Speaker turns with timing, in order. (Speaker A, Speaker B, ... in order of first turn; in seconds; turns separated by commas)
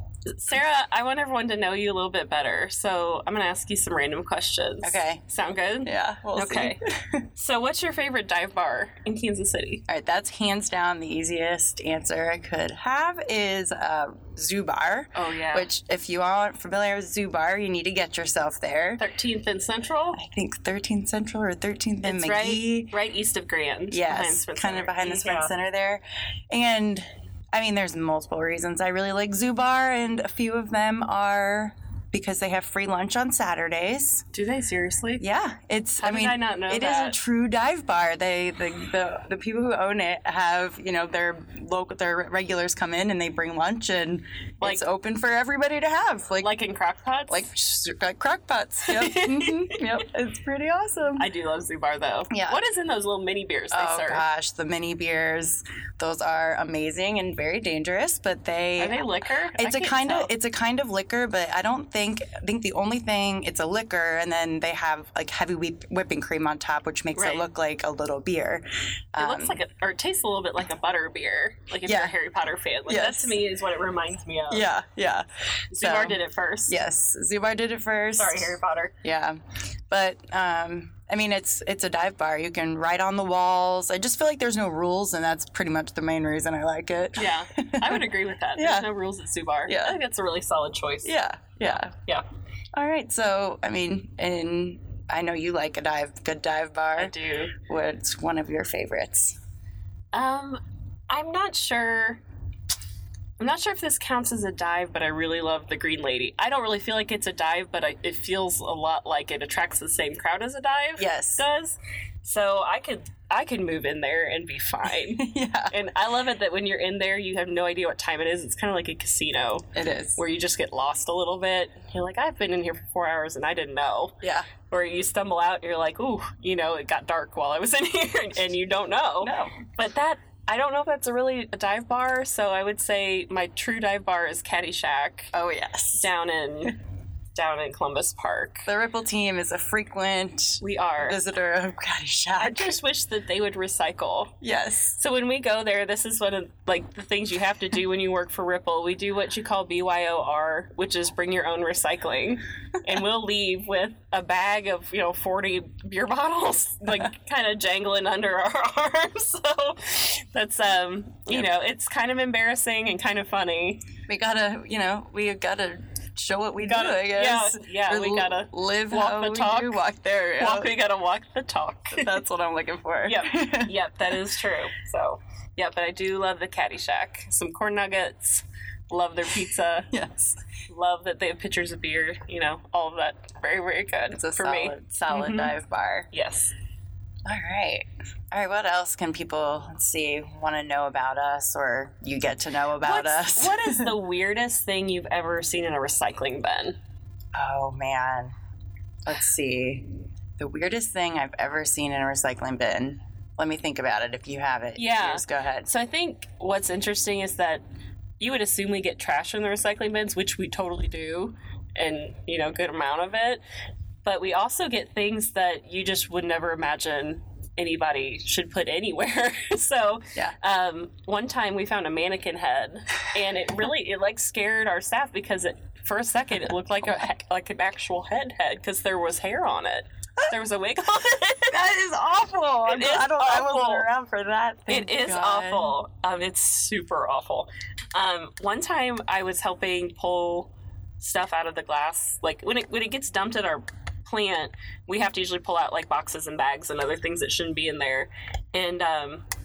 Speaker A: 0.3-6.8, Speaker B: 4.8-5.2, Speaker B: 5.8-7.3, Speaker A: 7.3-9.8, Speaker B: 9.9-19.0, Speaker A: 15.1-15.7, Speaker A: 19.0-20.2, Speaker B: 20.1-22.9, Speaker A: 22.1-25.5, Speaker B: 23.9-34.2, Speaker A: 34.3-35.3, Speaker B: 35.2-46.5, Speaker A: 36.0-37.2, Speaker A: 46.4-47.5, Speaker B: 47.3-51.3, Speaker A: 48.9-49.8, Speaker A: 51.2-54.3, Speaker B: 52.3-52.6, Speaker B: 53.7-59.0, Speaker A: 58.8-60.3, Speaker B: 59.6-69.6, Speaker A: 67.2-67.5, Speaker A: 69.2-74.7, Speaker B: 71.8-72.1, Speaker B: 72.9-73.4, Speaker B: 74.5-79.4, Speaker A: 75.7-76.8, Speaker A: 78.2-79.0, Speaker B: 79.9-88.0, Speaker A: 87.2-91.2, Speaker B: 88.6-88.9, Speaker B: 89.7-90.0, Speaker B: 91.0-91.9, Speaker B: 92.8-99.4, Speaker A: 97.0-97.6, Speaker A: 100.1-102.2, Speaker A: 103.4-124.2, Speaker B: 111.0-111.5, Speaker B: 115.2-115.7, Speaker B: 119.8-120.2, Speaker B: 124.2-124.5, Speaker A: 124.7-135.3, Speaker B: 129.2-129.6, Speaker B: 135.3-136.1, Speaker A: 135.9-136.8, Speaker A: 137.3-138.7, Speaker B: 138.7-142.8, Speaker A: 140.6-141.2, Speaker A: 142.4-144.4, Speaker B: 144.4-145.0, Speaker A: 145.0-163.8, Speaker B: 164.1-170.7, Speaker A: 166.6-169.8, Speaker A: 170.4-172.2, Speaker B: 171.9-173.7, Speaker A: 173.0-179.9, Speaker B: 179.9-180.4, Speaker A: 180.7-185.6, Speaker B: 184.1-186.1, Speaker A: 186.1-186.5, Speaker B: 187.3-193.9, Speaker A: 192.8-196.8, Speaker B: 197.3-198.3, Speaker B: 199.1-205.7, Speaker A: 204.8-207.6, Speaker A: 208.2-213.4, Speaker A: 214.0-231.6, Speaker B: 231.5-235.8, Speaker A: 232.7-233.9, Speaker A: 234.7-249.2